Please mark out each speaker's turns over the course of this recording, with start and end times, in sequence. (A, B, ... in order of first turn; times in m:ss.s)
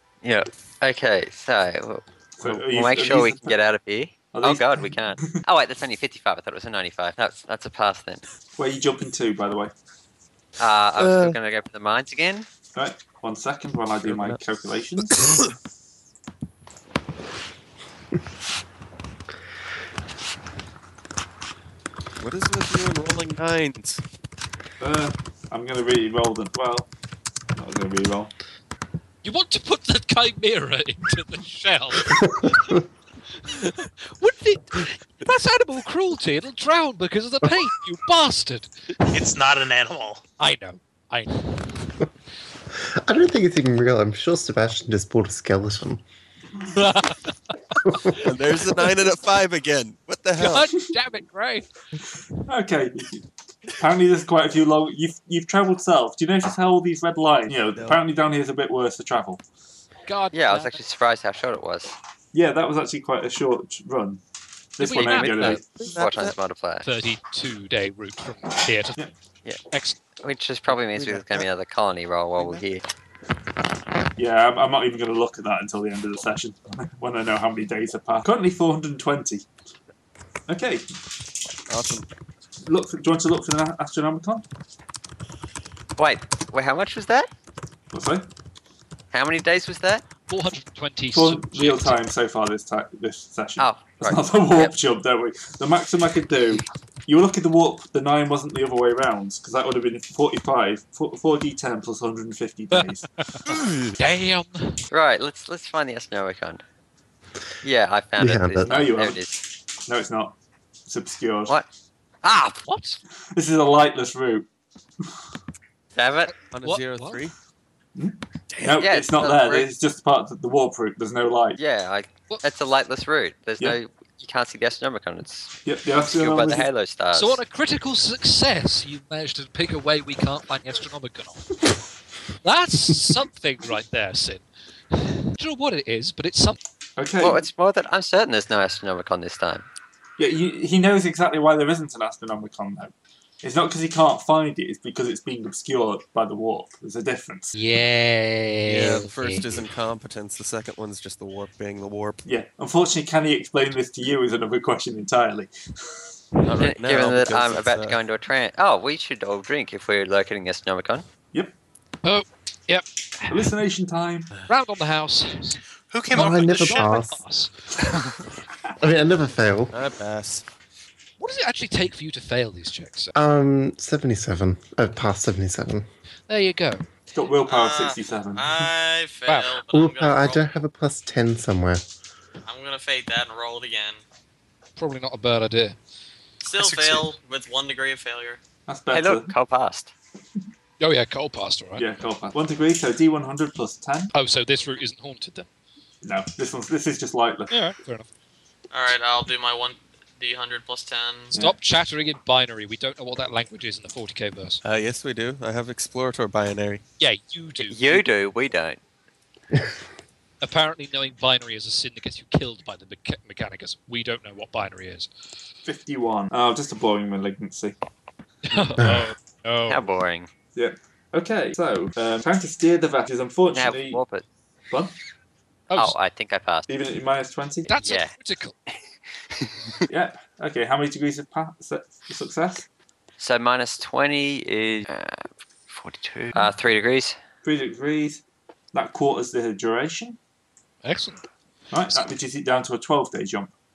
0:00.2-0:08.2 A
0:02.4-0:03.6 B
0:04.3-0:05.4 B
0:08.6-0:09.7 B
0:10.6-0:12.5 A
0:11.0-0:11.4 C
0:12.8-0:15.3 B
0:14.0-0:14.4 C
0:15.2-0:15.5 C
0:22.2-0:24.0 C
0:24.8-0:26.9 B
0:27.6-0:28.3 B
0:29.2-0:32.8 D
0:33.5-0:38.7 D
0:39.1-0:40.2 E
0:40.4-0:41.7 D
0:42.8-0:46.0 F
0:46.7-0:47.5 D
0:48.2-0:50.7 C
0:50.4-0:51.7 D
0:52.5-0:53.2 B
0:53.8-0:59.4 B
0:57.7-0:58.0 C
1:00.1-1:00.8 D
1:00.3-1:02.0 A
1:02.3-1:04.2 B
1:04.8-1:05.6 B
1:04.8-1:05.6 D
1:05.0-1:06.4 C
1:05.2-1:06.9 A
1:06.8-1:09.0 D
1:09.7-1:10.0 D
1:10.2-1:12.8 A
1:10.7-1:11.5 C
1:12.4-1:12.6 C
1:14.2-1:19.5 B
1:20.5-1:20.8 B
1:21.7-1:22.1 C
1:22.6-1:24.4 B
1:26.0-1:27.3 A
1:27.9-1:28.3 B
1:29.1-1:30.0 A
1:30.3-1:32.0 D
1:31.1-1:43.1 B
1:33.6-1:34.7 A
1:42.7-1:44.8 D
1:44.9-1:46.6 A
1:47.6-1:49.4 A
1:48.2-1:48.7 F
1:48.6-1:50.4 B
1:50.9-1:51.6 B
1:52.2-1:52.6 A
1:52.7-1:53.0 D
1:53.4-1:54.5 B
1:56.0-1:56.3 A
1:56.3-1:57.2 D
1:56.5-1:57.3 C
1:58.0-2:01.6 B
1:58.7-1:59.7 A
2:01.6-2:07.4 A
2:05.6-2:06.7 B
2:07.1-2:11.6 D
2:12.4-2:16.6 D
2:17.0-2:17.4 B
2:17.2-2:19.7 A
2:20.2-2:27.6 B
2:27.6-2:29.5 D
2:28.7-2:32.2 C
2:32.2-2:36.0 B
2:36.4-2:38.0 C
2:36.6-2:41.0 A
2:42.0-2:43.5 D
2:43.3-2:44.3 B
2:44.5-2:45.6 D
2:45.9-2:46.9 E
2:46.1-2:47.2 F
2:46.2-2:48.2 D
2:48.8-2:49.7 F
2:49.7-2:50.4 C
2:51.2-2:53.1 D
2:53.2-2:55.9 F
2:56.3-2:56.8 D
2:57.1-2:58.7 B
2:57.5-3:00.4 G
2:59.3-2:59.6 D
2:59.7-3:01.8 F
3:02.4-3:04.0 G
3:04.8-3:05.8 D
3:06.4-3:08.4 G
3:06.6-3:07.1 D
3:08.7-3:09.3 B
3:08.9-3:09.9 A
3:10.8-3:11.8 D
3:11.8-3:14.1 B
3:14.1-3:15.5 D
3:16.0-3:17.6 B
3:17.5-3:18.1 D
3:18.7-3:21.3 G
3:21.3-3:24.6 D
3:24.6-3:26.8 C
3:27.0-3:28.1 D
3:27.6-3:28.8 A
3:30.4-3:35.1 D
3:35.7-3:37.8 B
3:38.4-3:39.8 D
3:38.8-3:39.1 F
3:39.7-3:40.3 A
3:40.6-3:44.0 B
3:43.5-3:44.2 A
3:45.7-3:46.0 D
3:45.7-3:46.7 A
3:46.7-3:47.8 B
3:47.7-3:48.6 D
3:47.8-3:48.2 A
3:49.9-3:52.7 B
3:53.2-3:57.2 A
3:57.4-4:00.2 B
4:00.8-4:01.2 D
4:01.7-4:03.5 B